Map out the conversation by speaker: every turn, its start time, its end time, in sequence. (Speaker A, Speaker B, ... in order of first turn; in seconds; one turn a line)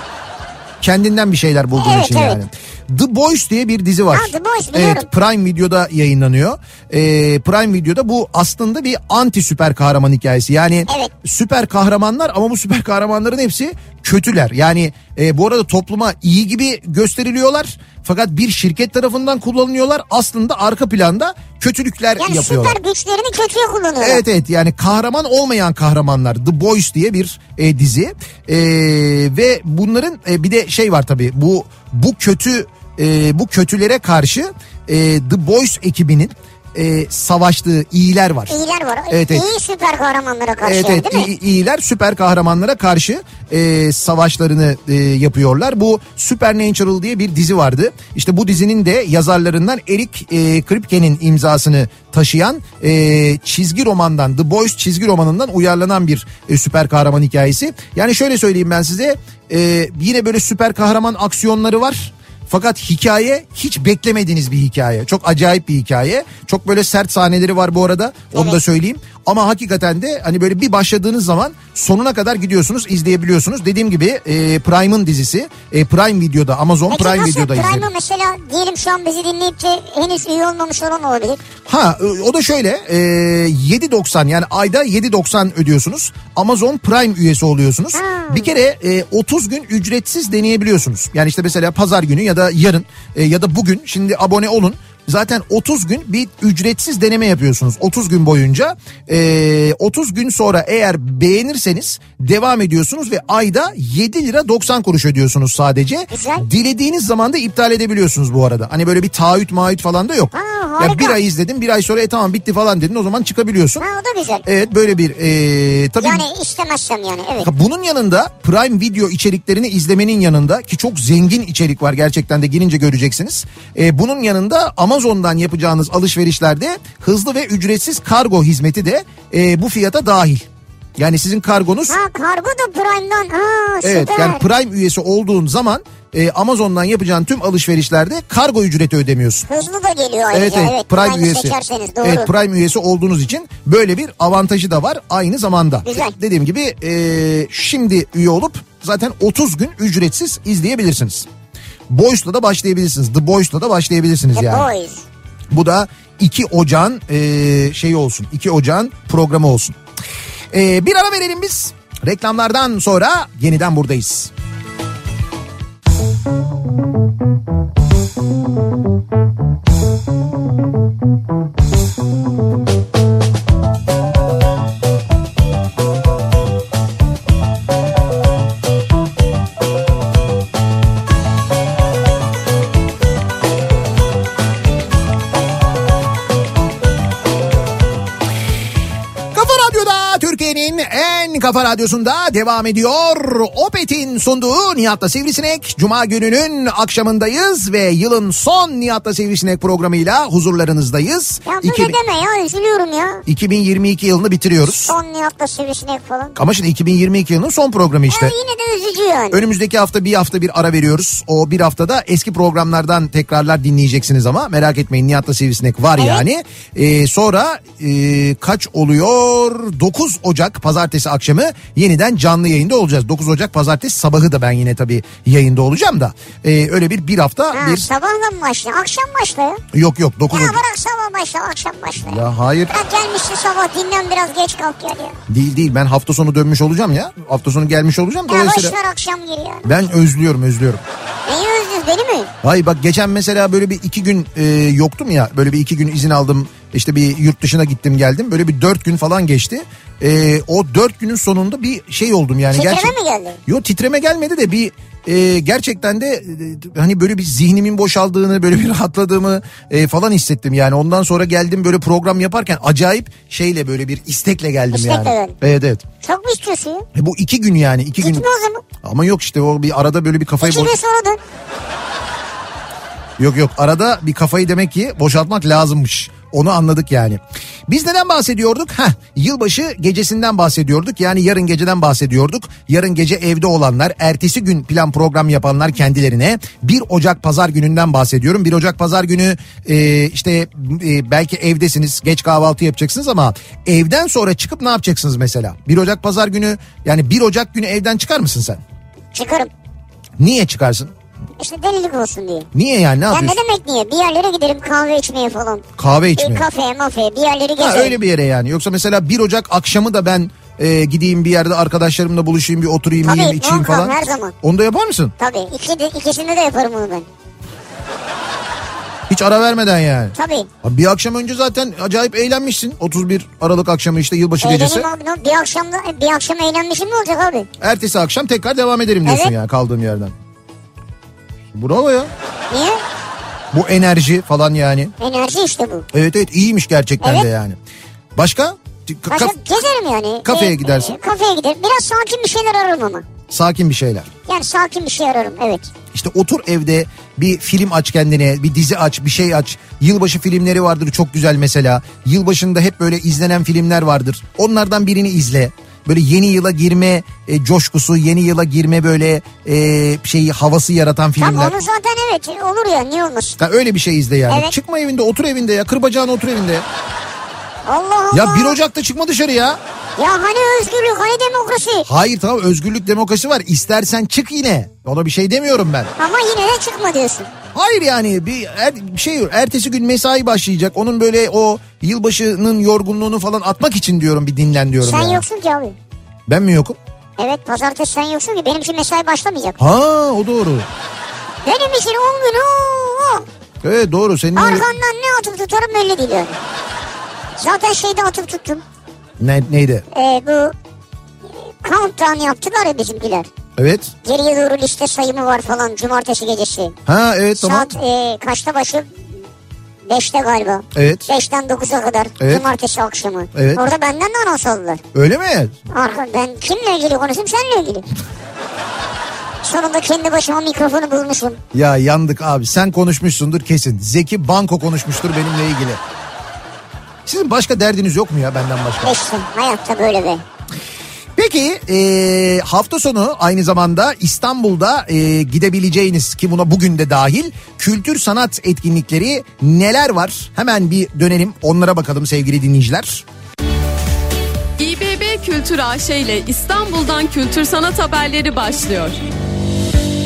Speaker A: 0.8-22.8
Speaker B: 1.8-2.4
Speaker B: 4.1-5.1
Speaker B: 22.2-24.2
Speaker A: 24.0-38.6
Speaker B: 38.5-41.3
Speaker A: 39.1-39.5
Speaker A: 40.6-77.9
Speaker B: 76.9-81.4
Speaker A: 81.7-113.8
Speaker B: 87.9-88.5
Speaker B: 106.1-106.5
Speaker B: 110.3-111.2
Speaker B: 113.8-114.5
Speaker A: 114.5-116.3
Speaker B: 116.0-117.5
Speaker A: 117.4-132.0
Speaker B: 131.9-134.4
Speaker A: 133.8-139.5
Speaker B: 139.5-142.3
Speaker A: 140.3-151.3
Speaker B: 145.8-146.1
Speaker A: 151.9-154.7
Speaker B: 154.3-155.1
Speaker A: 155.5-159.8
Speaker A: 160.5-164.3
Speaker A: 189.3-202.0
Speaker B: 201.4-203.2
Speaker A: 203.3-204.9
Speaker B: 204.7-206.4
Speaker A: 206.4-208.3
Speaker B: 208.1-209.4
Speaker A: 209.3-227.9
Speaker B: 216.0-216.2
Speaker B: 227.5-229.6
Speaker A: 229.7-230.6
Speaker B: 230.3-235.2
Speaker A: 232.0-232.8
Speaker A: 235.3-238.8
Speaker B: 238.3-239.7
Speaker A: 239.7-240.8
Speaker B: 241.3-242.3
Speaker A: 242.4-252.9
Speaker B: 252.5-253.4
Speaker A: 253.5-265.8
Speaker B: 264.7-265.4
Speaker B: 266.0-266.9
Speaker A: 266.9-268.3
Speaker B: 268.0-268.6
Speaker A: 268.8-270.8
Speaker B: 270.4-271.2
Speaker A: 273.2-298.6
Speaker B: 299.1-299.5
Speaker A: 300.2-300.9
Speaker B: 301.4-302.5
Speaker A: 302.5-303.4
Speaker B: 303.1-305.6
Speaker A: 305.8-306.5
Speaker B: 306.2-308.0
Speaker A: 307.6-315.1
Speaker B: 313.0-314.3
Speaker B: 315.2-317.1
Speaker A: 319.1-324.9
Speaker B: 320.1-320.5
Speaker B: 324.4-327.5
Speaker A: 327.6-330.1
Speaker B: 329.1-329.3
Speaker A: 331.5-332.1
Speaker B: 332.5-332.8
Speaker A: 333.5-334.9
Speaker B: 335.0-335.9
Speaker A: 335.9-337.6
Speaker B: 337.0-337.3
Speaker A: 338.2-339.4
Speaker B: 339.1-343.1
Speaker A: 340.2-341.0
Speaker A: 343.3-344.1
Speaker B: 344.3-345.7
Speaker A: 345.9-361.5
Speaker B: 361.2-363.4
Speaker A: 363.4-366.6
Speaker B: 367.7-368.6
Speaker A: 368.1-369.6
Speaker B: 370.0-371.9
Speaker A: 371.9-375.9
Speaker B: 376.0-377.3
Speaker A: 377.5-385.2
Speaker B: 384.8-385.8
Speaker A: 386.3-386.8
Speaker B: 387.2-389.6
Speaker A: 389.6-390.7
Speaker B: 391.4-393.3
Speaker A: 393.6-394.7
Speaker B: 394.4-396.4
Speaker B: 397.4-398.6
Speaker A: 399.2-399.9
Speaker B: 399.9-400.5
Speaker B: 401.6-403.3
Speaker A: 403.6-403.9
Speaker B: 404.0-406.8
Speaker A: 406.9-407.8
Speaker B: 407.4-408.9
Speaker B: 409.9-414.8
Speaker A: 410.8-411.1
Speaker A: 412.2-412.4
Speaker A: 413.3-413.6
Speaker A: 414.9-415.6
Speaker B: 415.7-417.9
Speaker B: 419.4-421.4
Speaker A: 421.5-425.8
Speaker A: 427.1-429.0
Speaker B: 428.8-430.2
Speaker A: 431.2-443.1
Speaker C: 444.6-449.0